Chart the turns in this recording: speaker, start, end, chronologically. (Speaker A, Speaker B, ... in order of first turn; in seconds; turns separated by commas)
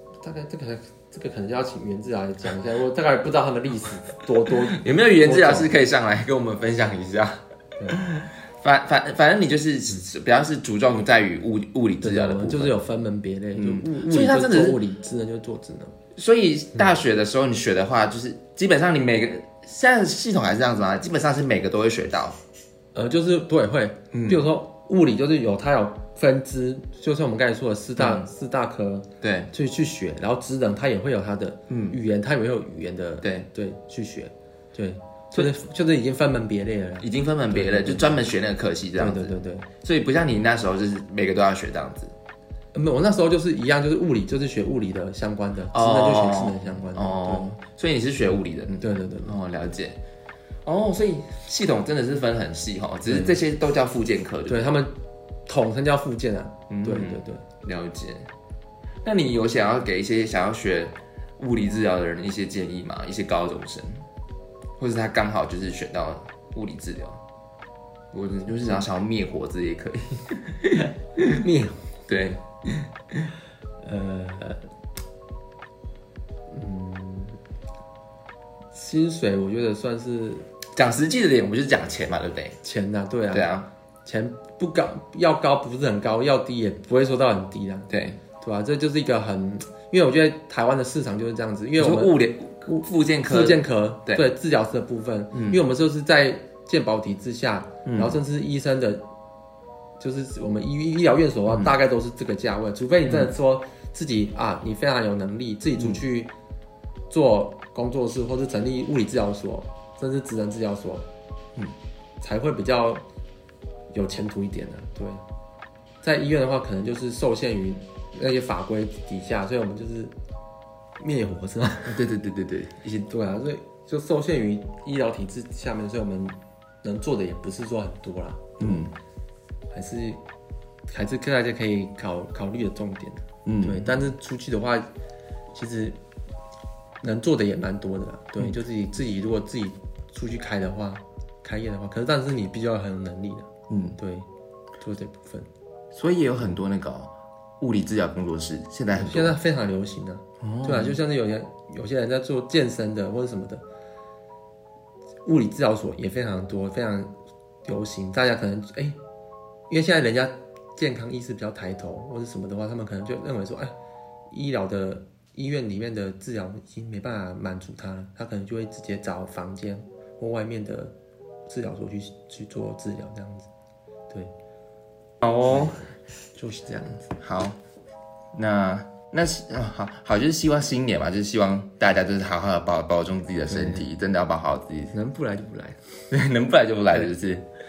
Speaker A: 0.2-5.7, Speaker B: 4.7-12.8, Speaker A: 12.0-15.9, Speaker B: 13.6-14.8, Speaker B: 16.1-22.4, Speaker A: 22.9-38.2, Speaker B: 24.1-24.5, Speaker B: 28.0-28.2, Speaker B: 29.2-29.5, Speaker B: 31.7-32.0, Speaker B: 33.2-33.5, Speaker B: 37.0-42.1, Speaker A: 39.0-39.7, Speaker A: 42.7-47.5, Speaker B: 45.7-50.0, Speaker A: 48.8-49.3, Speaker B: 50.6-54.7, Speaker A: 53.0-53.4, Speaker A: 54.5-57.4, Speaker B: 56.7-58.3, Speaker B: 59.0-64.0, Speaker B: 64.8-67.2, Speaker B: 68.1-71.4, Speaker A: 71.3-71.9, Speaker B: 72.1-73.3, Speaker A: 73.8-74.6, Speaker A: 76.5-77.4, Speaker A: 78.7-80.4, Speaker B: 80.7-82.6, Speaker A: 82.6-83.5, Speaker B: 83.3-83.7, Speaker A: 84.0-99.1, Speaker B: 87.9-88.2, Speaker B: 91.8-94.2, Speaker B: 95.3-95.6, Speaker B: 97.8-98.2, Speaker A: 100.0-106.3, Speaker A: 107.1-111.1, Speaker A: 112.2-113.0, Speaker A: 113.9-115.2, Speaker A: 116.0-120.1, Speaker A: 121.0-122.0, Speaker B: 121.8-123.1, Speaker A: 123.1-128.9, Speaker B: 128.6-128.9, Speaker A: 129.7-130.2, Speaker A: 130.9-134.9, Speaker B: 133.4-134.0, Speaker A: 135.5-136.0, Speaker A: 137.0-144.3, Speaker B: 143.7-144.0, Speaker A: 144.8-145.5, Speaker B: 145.9-149.4, Speaker A: 148.9-153.6, Speaker B: 150.4-151.0, Speaker A: 155.2-157.1, Speaker A: 157.6-159.0, Speaker A: 159.7-163.7, Speaker A: 164.3-170.9, Speaker A: 171.4-173.5, Speaker B: 175.2-175.8, Speaker A: 175.4-177.1, Speaker B: 177.2-177.6, Speaker B: 178.3-184.9, Speaker A: 183.5-183.8, Speaker A: 184.9-185.8, Speaker B: 186.1-187.4